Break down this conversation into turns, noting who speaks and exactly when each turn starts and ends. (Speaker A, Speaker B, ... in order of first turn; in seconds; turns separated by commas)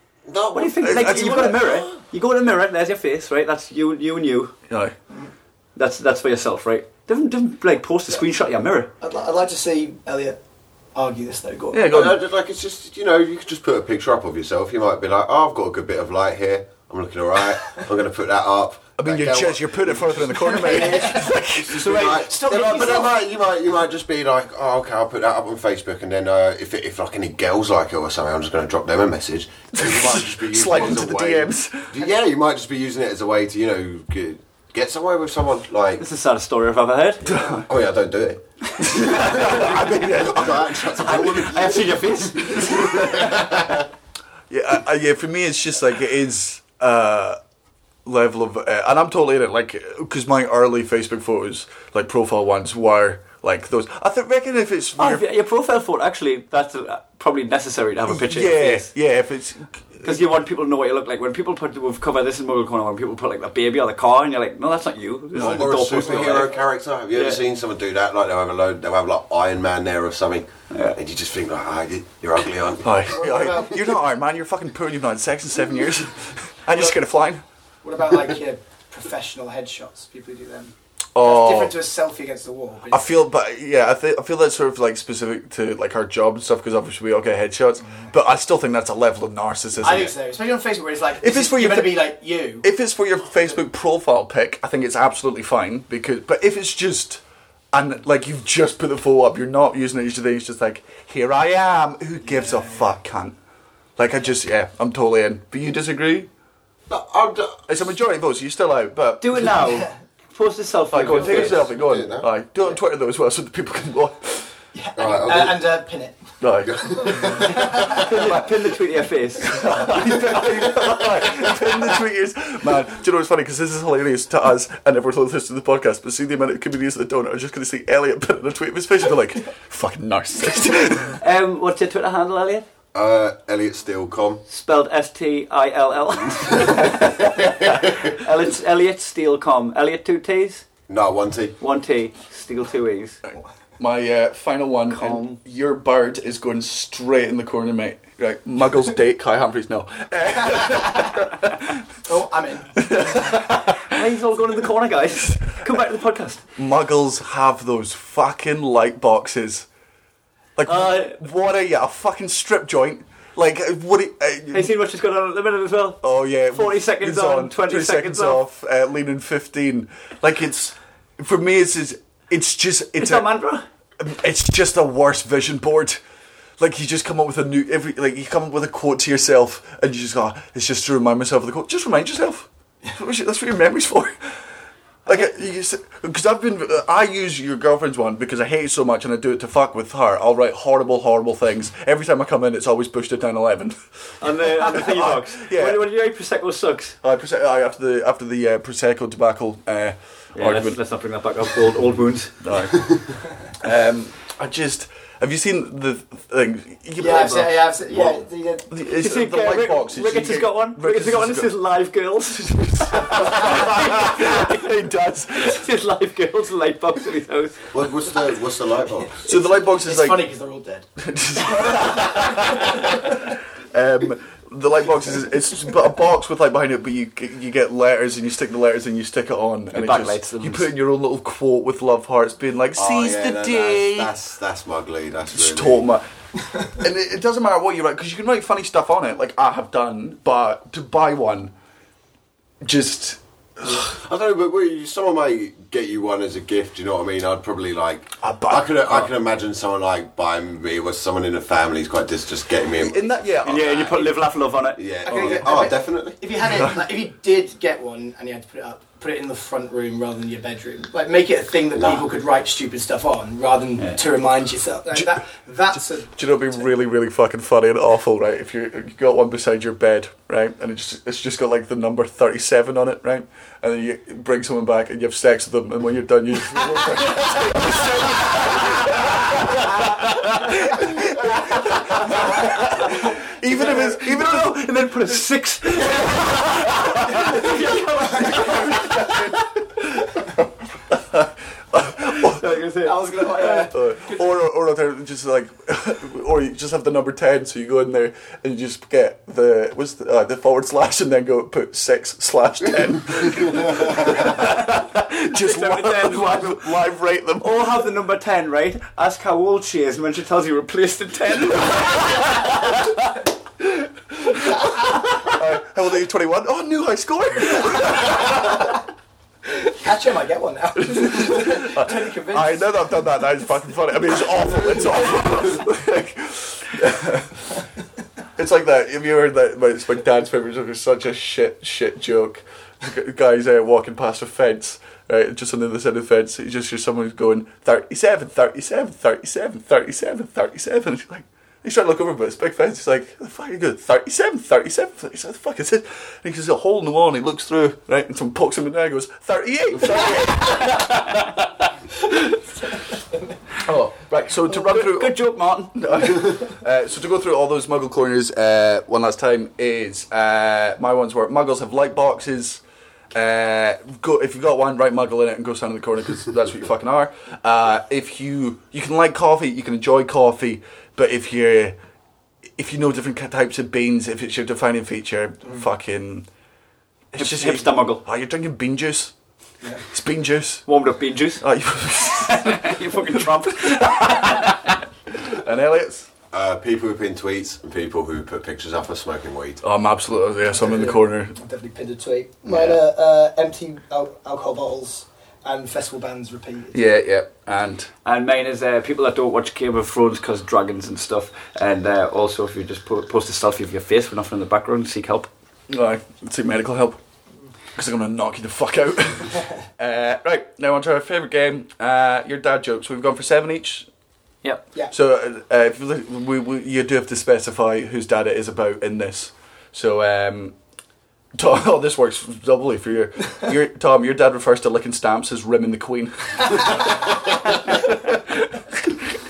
Speaker A: 0.3-1.6, Speaker B: 0.5-4.5, Speaker C: 0.8-1.6, Speaker C: 4.7-4.9, Speaker B: 5.8-8.9, Speaker D: 9.0-10.4, Speaker D: 10.9-11.8, Speaker C: 11.7-12.2, Speaker A: 11.8-20.2, Speaker C: 19.0-22.0, Speaker B: 20.5-23.1, Speaker D: 20.6-21.0, Speaker A: 21.5-36.0, Speaker C: 29.8-31.9, Speaker B: 36.0-37.3, Speaker C: 37.2-37.7, Speaker A: 37.6-43.9, Speaker C: 38.8-41.4, Speaker B: 38.9-39.9, Speaker B: 41.0-43.1, Speaker C: 42.6-43.5, Speaker C: 44.5-47.4, Speaker C: 48.0-55.2, Speaker B: 55.0-58.9, Speaker C: 58.1-60.2, Speaker B: 60.0-66.6, Speaker A: 65.3-73.1, Speaker C: 65.4-65.7, Speaker B: 67.1-67.4, Speaker B: 70.7-71.0, Speaker C: 72.8-77.4, Speaker D: 73.2-73.7, Speaker D: 77.8-83.1, Speaker C: 81.1-81.7, Speaker C: 82.9-90.1, Speaker D: 89.8-92.7, Speaker C: 91.2-97.2, Speaker C: 97.7-103.3, Speaker C: 104.0-106.3, Speaker A: 106.9-107.7, Speaker C: 107.7-109.4, Speaker B: 109.2-111.7, Speaker C: 110.9-114.5, Speaker A: 111.6-112.3, Speaker D: 114.7-116.2, Speaker A: 115.0-115.6, Speaker C: 116.4-117.4, Speaker A: 116.6-118.0, Speaker D: 117.3-117.8, Speaker B: 117.7-119.8, Speaker C: 119.4-131.2, Speaker B: 131.2-132.7, Speaker A: 132.9-134.4, Speaker B: 134.5-140.7, Speaker A: 140.9-141.6, Speaker B: 141.6-143.2, Speaker C: 143.3-151.8, Speaker B: 144.9-145.4, Speaker D: 152.1-153.0, Speaker C: 152.8-153.8, Speaker B: 153.2-156.4, Speaker C: 156.6-159.7, Speaker C: 160.6-164.7, Speaker B: 160.7-161.2, Speaker B: 164.5-168.4, Speaker C: 166.0-173.3, Speaker B: 173.0-173.6, Speaker C: 174.0-176.0, Speaker C: 176.6-184.4, Speaker C: 185.1-195.8, Speaker B: 194.2-197.0, Speaker C: 197.0-200.8, Speaker B: 200.3-202.5, Speaker C: 202.4-211.5, Speaker D: 207.0-208.7, Speaker B: 208.8-214.7, Speaker C: 212.4-215.6, Speaker B: 215.3-217.7, Speaker A: 217.7-219.2, Speaker C: 219.2-220.2, Speaker D: 219.7-220.8, Speaker C: 221.0-223.2, Speaker D: 221.4-223.0, Speaker C: 223.7-234.1, Speaker B: 229.7-230.7, Speaker A: 232.7-235.8, Speaker C: 235.3-236.0, Speaker C: 236.6-241.5, Speaker C: 242.6-243.9, Speaker A: 243.8-253.1, Speaker C: 248.2-249.1, Speaker C: 252.8-254.2, Speaker B: 253.4-254.8, Speaker A: 254.8-256.2, Speaker D: 255.1-266.3, Speaker C: 255.1-255.5, Speaker C: 266.1-292.4, Speaker B: 283.6-286.2, Speaker B: 286.9-289.2, Speaker B: 292.2-293.7, Speaker D: 292.8-294.2, Speaker C: 293.7-307.8, Speaker B: 305.2-306.6, Speaker B: 307.4-312.7, Speaker C: 313.6-318.7, Speaker D: 319.6-322.9, Speaker C: 320.8-327.6, Speaker C: 328.4-350.9, Speaker B: 350.7-351.2, Speaker C: 353.6-355.1, Speaker B: 354.5-356.3, Speaker C: 355.7-362.6, Speaker C: 363.1-371.8, Speaker C: 372.6-376.3, Speaker C: 377.1-379.1, Speaker B: 377.1-378.0, Speaker C: 379.9-380.6, Speaker B: 380.7-381.4, Speaker C: 381.4-384.5, Speaker B: 382.0-384.5, Speaker C: 385.1-386.1, Speaker A: 386.3-389.6, Speaker C: 389.6-391.4, Speaker D: 390.6-396.8, Speaker C: 396.7-397.9, Speaker B: 398.0-405.3, Speaker C: 405.7-407.0, Speaker C: 407.8-413.9, Speaker C: 414.9-420.5, Speaker C: 421.3-428.2